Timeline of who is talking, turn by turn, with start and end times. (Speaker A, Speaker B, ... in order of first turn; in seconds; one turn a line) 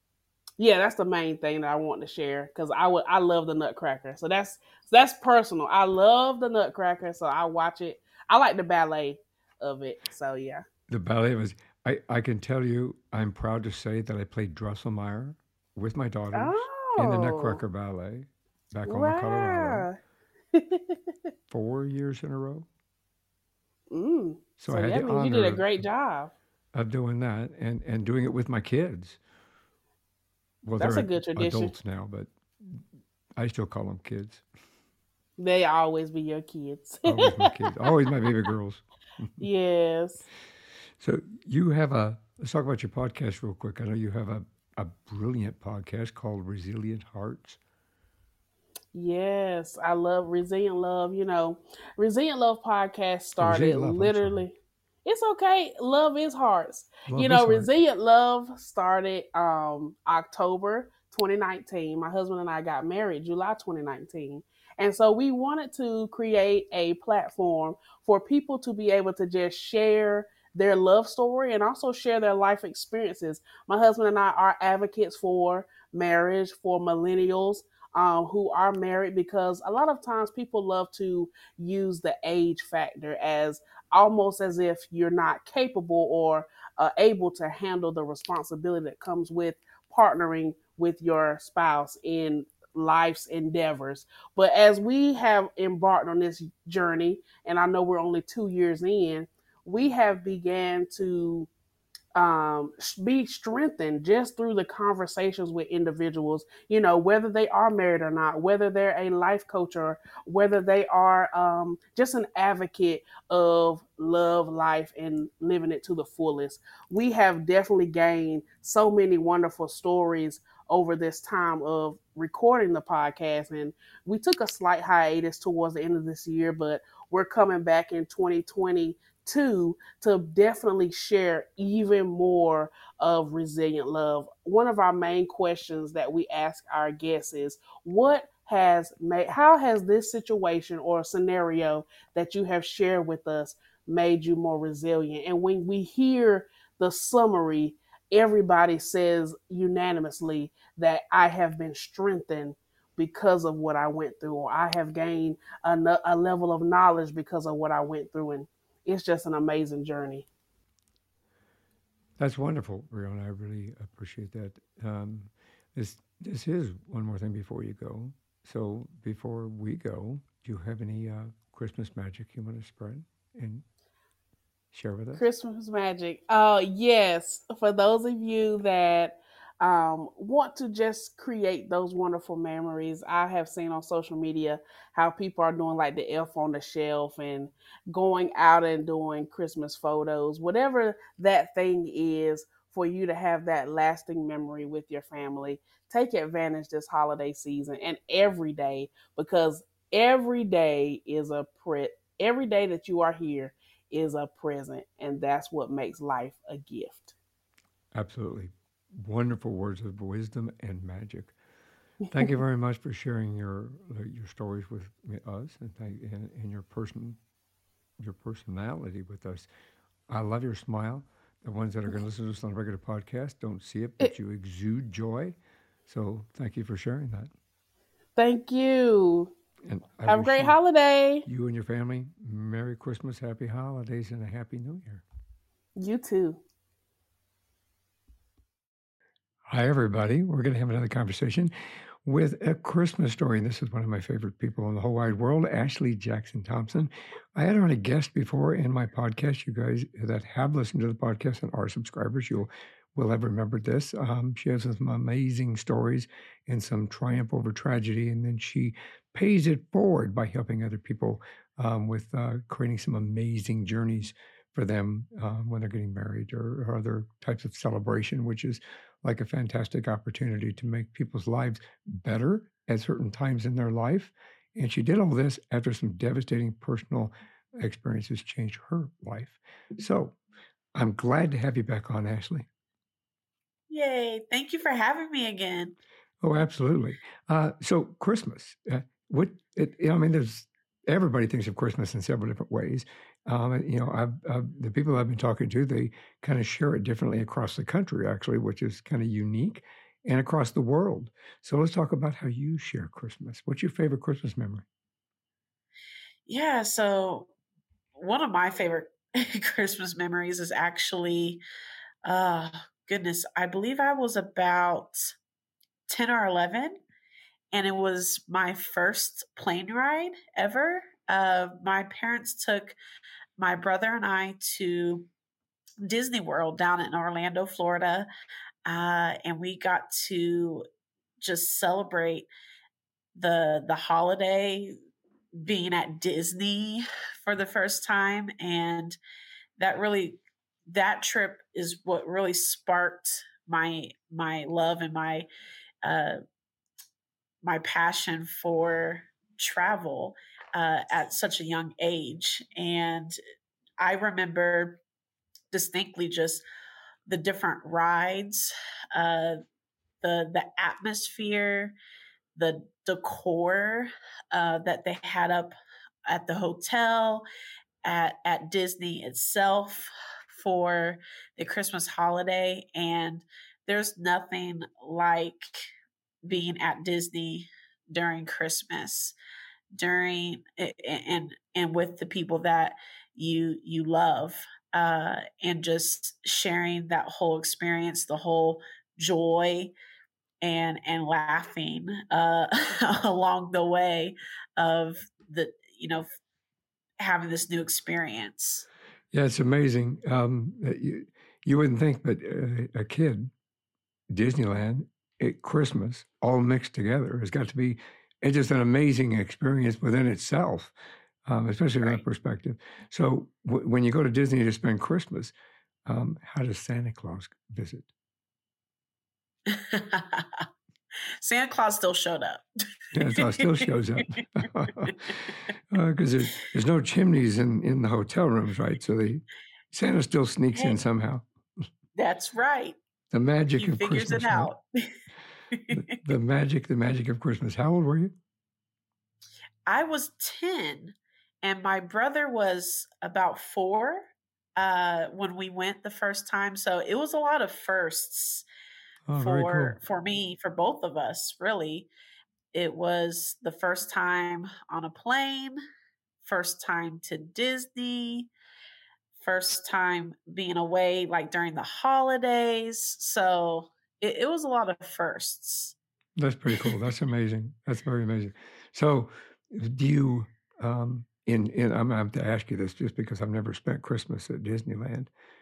Speaker A: 0.6-10.6
Speaker B: 10.9-19.9
Speaker A: 16.3-17.6
Speaker A: 18.9-20.0
Speaker A: 20.5-21.0
Speaker B: 21.5-22.7
Speaker A: 23.9-26.3
Speaker B: 24.6-25.9
Speaker B: 26.7-29.2
Speaker B: 30.6-32.8
Speaker A: 30.8-31.7
Speaker B: 33.4-34.4
Speaker A: 35.4-37.9
Speaker B: 37.0-39.5
Speaker A: 39.4-40.2
Speaker B: 41.0-47.6
Speaker A: 48.9-101.5
Speaker B: 53.4-54.5
Speaker B: 57.1-57.7
Speaker A: 102.1-160.3
Speaker B: 162.2-173.6
Speaker B: 174.7-175.2
Speaker A: 175.2-207.2
Speaker B: 207.9-211.3
Speaker B: 212.1-217.2
Speaker B: 218.0-219.5
Speaker B: 220.1-225.4
Speaker B: 225.9-227.3
Speaker A: 228.2-229.3
Speaker B: 229.6-230.6
Speaker A: 230.1-231.2
Speaker B: 231.2-235.0
Speaker A: 235.8-236.4
Speaker B: 239.5-241.5
Speaker B: 242.1-280.2
Speaker B: 280.8-282.5
Speaker C: 283.7-285.8
Speaker B: 286.2-304.6
Speaker C: 306.3-307.3
Speaker C: 308.0-311.4
Speaker C: 312.1-315.0
Speaker C: 315.9-316.8
Speaker C: 317.5-322.8
Speaker C: 323.4-325.1
Speaker C: 325.8-328.1
Speaker C: 328.7-330.6
Speaker C: 331.2-332.3
Speaker C: 333.1-334.8
Speaker C: 335.4-339.0
Speaker C: 339.6-345.3
Speaker C: 345.8-346.2
Speaker C: 347.4-353.1
Speaker C: 353.8-354.8
Speaker C: 355.5-356.4
Speaker C: 357.1-359.4
Speaker C: 360.0-361.8
Speaker C: 362.4-365.5
Speaker C: 366.1-367.2
Speaker C: 367.9-375.6
Speaker C: 376.2-379.1
Speaker C: 379.8-389.7
Speaker C: 390.4-396.1
Speaker C: 397.0-398.6
Speaker B: 399.1-403.3
Speaker B: 404.1-410.7
Speaker B: 411.3-415.3
Speaker B: 415.9-417.9
Speaker C: 419.5-420.4
Speaker C: 421.2-422.4
Speaker B: 422.9-431.2
Speaker C: 423.1-423.7
Speaker C: 432.0-432.8
Speaker B: 433.1-434.5
Speaker C: 433.6-434.9
Speaker C: 435.5-435.9
Speaker B: 435.7-438.1
Speaker C: 439.7-444.0
Speaker C: 444.6-448.5
Speaker B: 449.1-449.8
Speaker C: 449.1-451.9
Speaker C: 452.5-455.6
Speaker C: 456.2-458.3
Speaker C: 459.2-465.8
Speaker B: 466.2-475.1